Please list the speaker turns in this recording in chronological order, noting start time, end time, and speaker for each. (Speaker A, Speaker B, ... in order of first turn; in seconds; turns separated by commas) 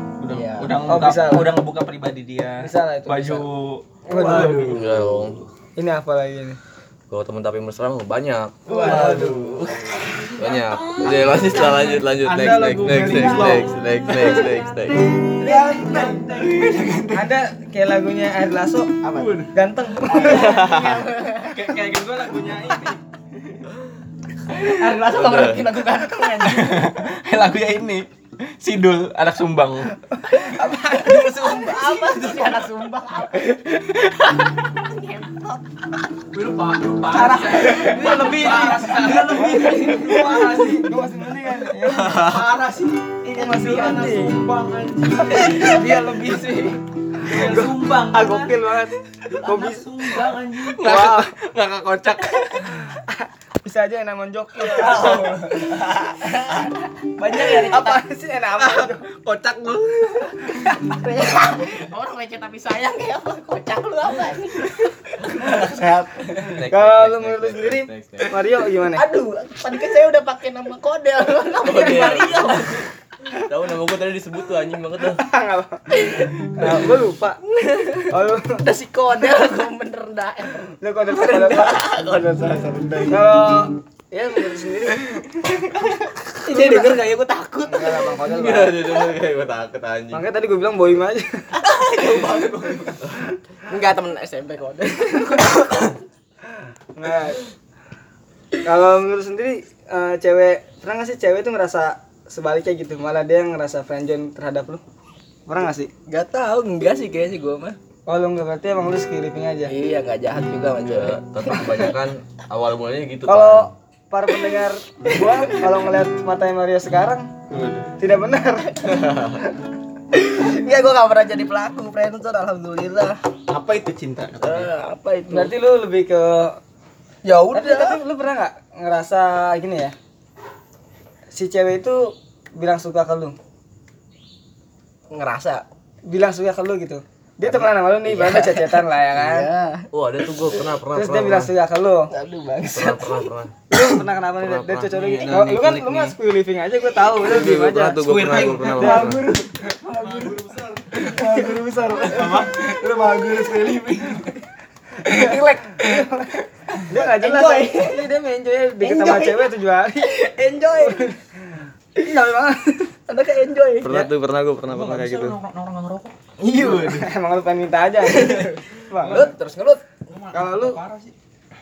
Speaker A: 0.2-4.8, Speaker B: 0.3-0.7, Speaker C: 0.9-1.6, Speaker C: 2.6-3.5, Speaker C: 4.0-4.8, Speaker B: 4.1-5.0, Speaker D: 4.7-5.4, Speaker C: 5.8-6.6, Speaker D: 7.1-8.6, Speaker C: 8.7-9.6, Speaker B: 8.7-12.0, Speaker D: 10.4-15.2, Speaker C: 12.2-13.7, Speaker A: 12.2-13.7, Speaker B: 14.2-14.6, Speaker B: 15.2-17.2, Speaker C: 15.4-16.1, Speaker A: 15.6-17.1, Speaker C: 17.1-19.0, Speaker B: 19.0-19.5, Speaker A: 19.1-19.5, Speaker C: 19.5-20.6, Speaker B: 20.0-21.6, Speaker A: 20.1-20.8, Speaker D: 20.4-21.0, Speaker A: 21.4-23.6, Speaker B: 24.5-26.9, Speaker D: 25.1-25.6, Speaker A: 26.4-28.1, Speaker A: 28.6-29.9, Speaker C: 30.1-31.5, Speaker B: 30.4-35.6, Speaker A: 36.3-40.9, Speaker B: 37.0-41.0, Speaker C: 37.6-38.8, Speaker C: 39.6-42.2, Speaker D: 41.9-42.5, Speaker A: 42.0-43.0, Speaker B: 42.2-42.5, Speaker B: 43.2-48.5, Speaker C: 43.3-44.4, Speaker A: 43.7-46.6, Speaker C: 45.3-45.6, Speaker C: 47.2-50.2, Speaker A: 47.2-48.5, Speaker B: 49.3-50.8, Speaker A: 49.5-52.8, Speaker C: 50.8-51.3, Speaker C: 52.6-55.9, Speaker B: 54.6-58.0, Speaker C: 57.4-59.0, Speaker A: 58.6-60.8, Speaker B: 60.6-66.1, Speaker D: 66.4-68.4, Speaker C: 66.7-69.0, Speaker B: 68.8-72.9, Speaker D: 71.6-72.8, Speaker D: 73.4-75.2, Speaker C: 75.1-75.9, Speaker B: 76.0-76.9, Speaker C: 76.5-77.4, Speaker B: 77.5-83.2, Speaker C: 78.1-78.6, Speaker C: 80.8-81.9, Speaker C: 82.6-85.2, Speaker B: 86.2-88.2, Speaker C: 86.5-87.0, Speaker C: 87.7-88.8, Speaker D: 88.2-90.2, Speaker C: 90.1-91.6, Speaker B: 91.6-93.1, Speaker B: 93.7-96.0, Speaker C: 97.0-97.4, Speaker C: 98.6-104.8, Speaker C: 105.5-105.9, Speaker B: 106.1-107.8, Speaker C: 108.1-109.7, Speaker B: 109.7-111.9, Speaker D: 110.8-113.7, Speaker C: 113.2-117.3, Speaker B: 115.2-115.4, Speaker A: 117.5-117.9, Speaker C: 118.0-119.2, Speaker D: 119.0-119.4, Speaker B: 120.1-123.2, Speaker A: 123.5-124.7, Speaker B: 124.4-125.5, Speaker C: 125.3-126.6, Speaker B: 127.2-128.0, Speaker C: 127.5-129.9, Speaker C: 131.3-133.4, Speaker B: 135.1-135.6, Speaker C: 136.1-139.5, Speaker B: 137.4-140.7, Speaker D: 139.9-141.5, Speaker C: 140.9-142.1, Speaker B: 142.1-144.0, Speaker D: 142.7-143.5, Speaker C: 143.7-148.1, Speaker D: 144.4-145.2, Speaker B: 144.9-146.2, Speaker D: 147.2-149.2, Speaker A: 148.0-148.8, Speaker B: 148.1-154.4, Speaker C: 148.7-149.8, Speaker A: 149.9-150.9, Speaker C: 150.9-152.5, Speaker A: 152.0-154.2, Speaker B: 155.0-156.1, Speaker C: 155.0-160.1, Speaker B: 156.8-158.1, Speaker B: 158.8-161.1, Speaker C: 160.8-161.2, Speaker C: 161.9-162.9, Speaker B: 163.1-163.9, Speaker D: 163.8-165.4, Speaker A: 164.7-166.1, Speaker B: 166.4-167.1, Speaker C: 166.6-169.3, Speaker B: 168.0-169.8, Speaker A: 170.1-171.1, Speaker C: 170.3-170.8